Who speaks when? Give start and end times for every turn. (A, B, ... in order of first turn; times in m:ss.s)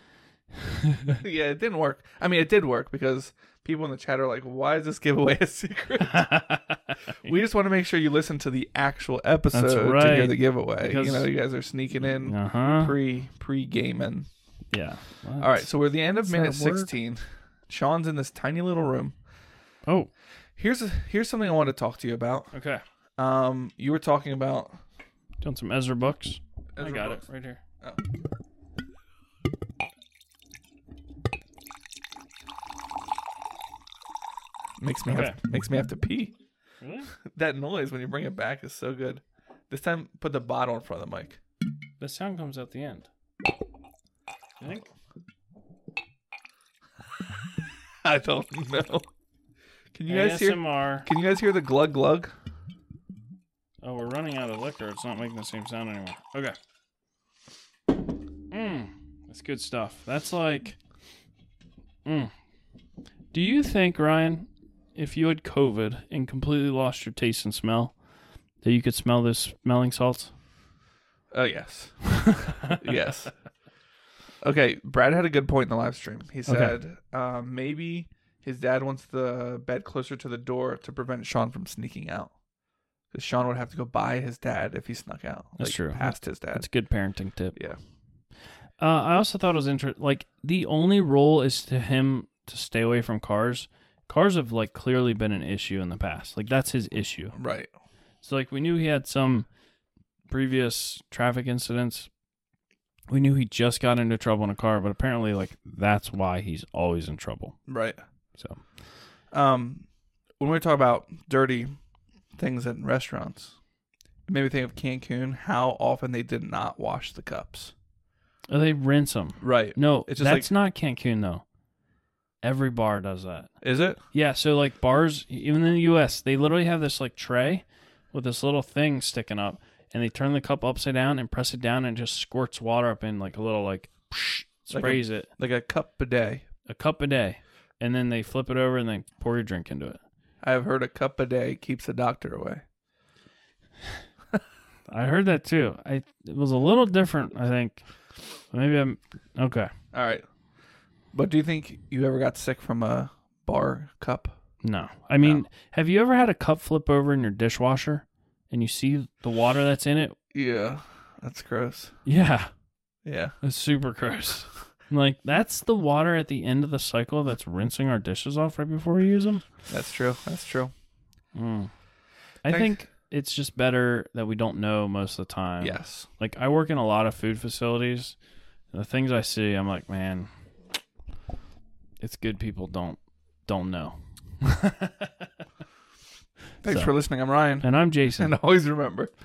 0:00.6-0:01.2 A
0:01.2-0:06.3 B
0:06.1-0:07.1 A
0:07.2-0:14.3 B
0:09.5-0:11.3 A
0:12.0-0:13.0 A
0:14.7-0:16.9 A
0:15.4-0:19.2 B
0:19.9-0:20.1 A
0:20.6-0:22.5 B
0:22.5-0:22.8 A
0:23.2-0:24.8 B
0:25.4-0:27.6 A
0:26.7-0:27.2 B
0:34.8-0:36.4 B
0:35.1-0:35.4 A
0:36.8-0:37.2 A
0:37.3-0:41.4 B
0:42.0-0:43.1 A
0:44.6-0:44.9 A
0:48.0-0:49.1 B
0:49.9-0:52.3 B
0:50.1-0:51.1 A
0:53.8-0:56.6 A
0:58.5-1:00.8 A
1:02.0-1:02.3 A
1:03.3-1:08.0 A
1:08.6-1:10.3 A
1:11.3-1:13.3 B
1:14.4-1:22.3 B
1:16.5-1:16.8 A
1:23.1-1:26.7 B
1:25.6-1:27.6 A
1:28.8-1:37.4 A
1:37.4-1:37.7 B
1:38.2-1:39.5 A
1:40.3-1:42.1 A
1:43.1-1:47.6 A
1:47.7-1:48.0 B
1:48.4-1:48.6 A
1:49.3-1:49.9 B
1:50.4-1:51.8 B
1:52.4-1:53.6 B
1:54.3-1:57.7 B
1:58.5-2:01.4 A
1:59.4-2:00.5 B
2:02.4-2:03.5 A
2:03.6-2:04.0 B
2:04.1-2:15.3 A
2:14.7-2:16.4 B
2:16.7-2:20.0 A
2:20.4-2:22.6 B
2:24.9-2:27.8 A
2:28.5-2:29.7 A
2:29.9-2:30.2 B
2:31.1-2:34.4 B
2:34.6-2:40.2 A
2:40.3-2:42.0 B
2:42.0-2:42.5 A
2:43.0-2:43.4 B
2:43.4-2:49.4 A
2:49.7-2:50.7 B
2:51.4-2:51.7 A
2:52.4-2:58.2 A
2:52.4-2:52.8 B
2:55.6-2:56.1 B
2:58.7-3:00.3 A
3:02.0-3:05.3 A
3:06.6-3:09.1 B
3:06.6-3:07.0 A
3:07.6-3:08.3 A